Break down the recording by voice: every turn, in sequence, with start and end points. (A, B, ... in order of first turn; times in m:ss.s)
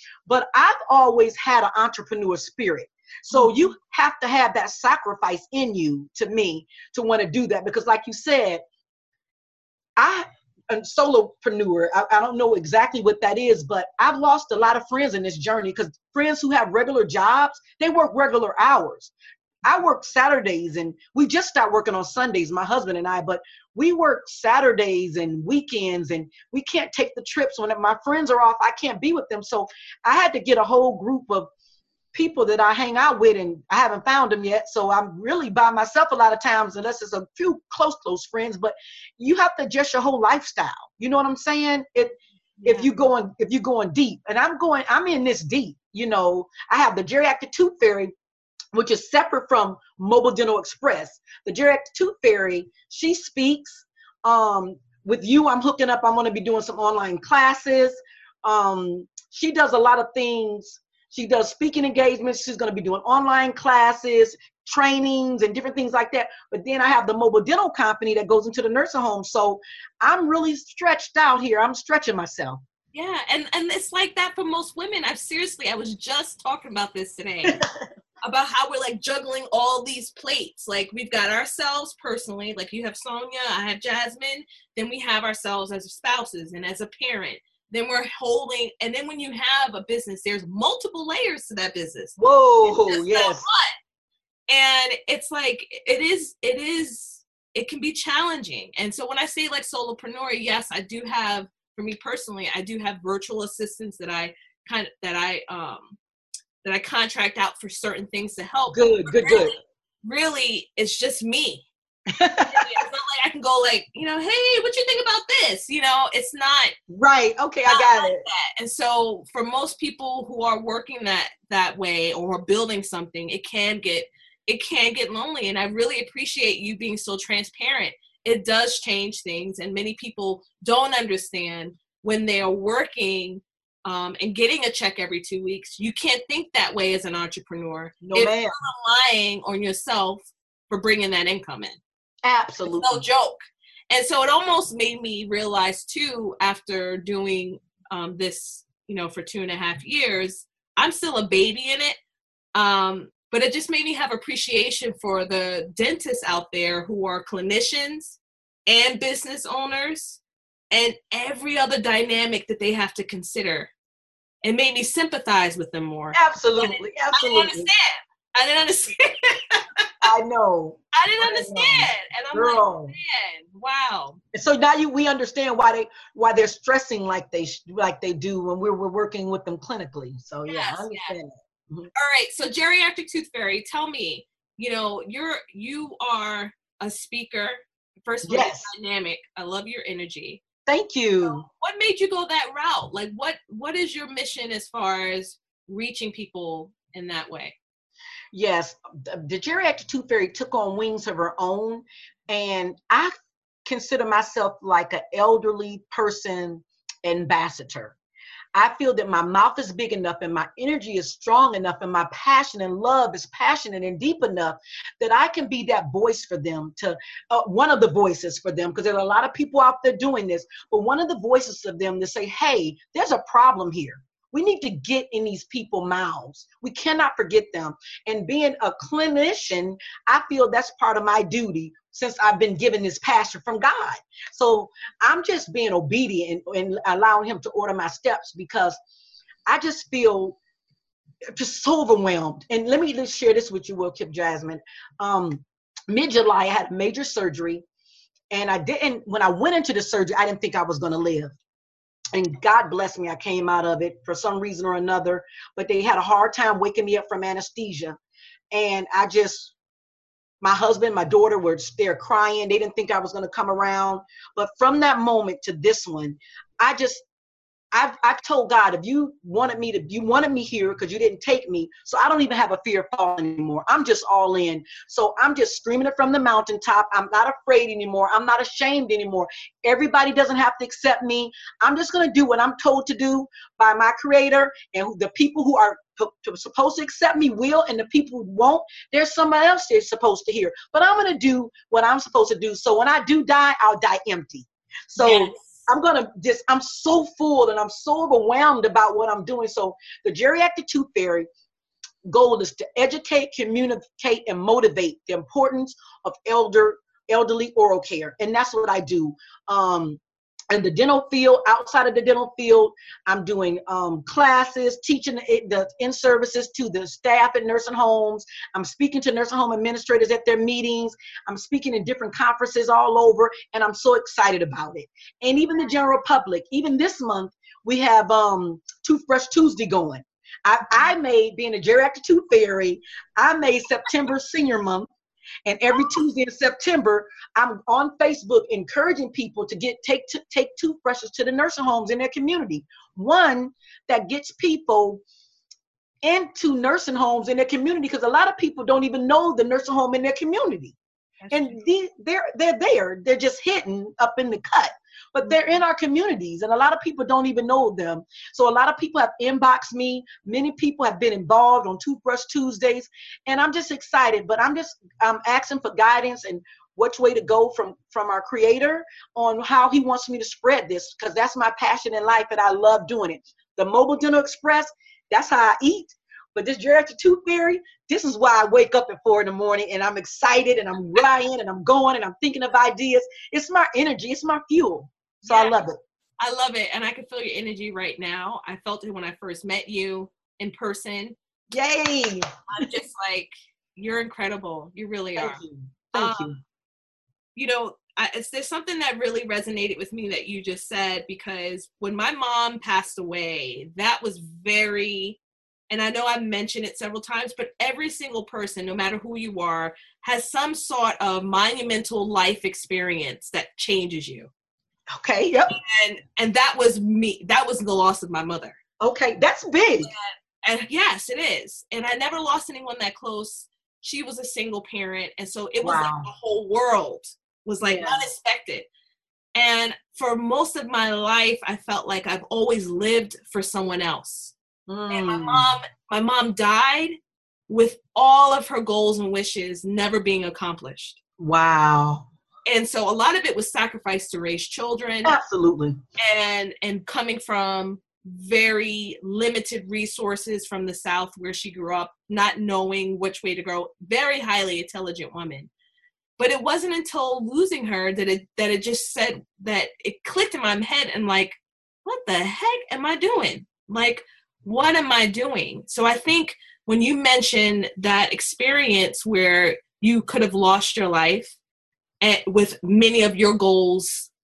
0:00.3-0:08.6 A
0:10.0-0:19.1 A
0:19.6-0:31.5 A
0:32.1-0:48.1 A
0:42.6-0:42.9 B
0:48.7-1:12.6 A
1:12.9-1:17.6 B
1:18.2-1:33.8 B
1:32.2-1:33.4 A
1:34.5-1:46.0 B
1:46.6-1:51.7 B
1:48.7-1:49.6 A
1:52.1-1:52.7 A
1:52.5-1:56.7 B
1:56.9-1:58.2 A
1:57.7-2:21.8 B
2:18.0-2:18.6 A
2:22.2-2:23.0 A
2:22.7-2:23.4 B
2:23.9-2:32.0 B
2:32.6-2:43.7 B
2:44.4-2:49.9 B
2:46.1-2:47.7 A
2:50.0-2:53.0 A
2:50.9-2:54.2 B
2:54.3-3:01.9 A
3:00.5-3:01.2 B
3:02.0-3:10.4 B
3:08.3-3:08.7 A
3:10.7-3:11.5 A
3:11.2-3:17.6 B
3:18.3-3:23.1 A
3:23.6-3:28.0 A
3:28.6-3:58.8 A
3:59.5-4:00.4 A
4:01.4-4:07.6 A
4:08.3-4:11.4 A
4:12.1-4:18.0 A
4:18.5-4:19.5 A
4:20.4-4:27.0 A
4:27.7-5:01.3 A
4:55.0-4:55.6 B
5:02.1-5:10.0 A
5:10.5-5:34.9 A
5:35.4-5:45.0 A
5:46.0-5:50.8 A
5:51.2-5:51.7 B
5:51.3-6:25.8 A
5:55.2-5:55.6 B
6:25.3-6:25.6 B
6:26.2-6:31.2 B
6:31.5-6:32.3 A
6:32.5-6:35.4 B
6:35.2-6:36.4 A
6:36.0-6:36.4 B
6:37.4-6:45.2 B
6:45.7-6:54.3 B
6:54.9-6:55.6 A
6:55.5-6:58.6 B
6:58.8-6:59.9 A
6:59.8-7:08.7 B
7:05.6-7:06.1 A
7:07.7-7:08.1 A
7:09.4-7:14.4 B
7:14.7-7:15.5 A
7:14.9-7:17.0 B
7:17.5-7:21.0 B
7:21.2-7:22.1 A
7:22.5-7:25.2 B
7:25.0-7:25.8 A
7:26.0-7:35.5 B
7:36.2-7:51.4 B
7:52.0-7:54.1 B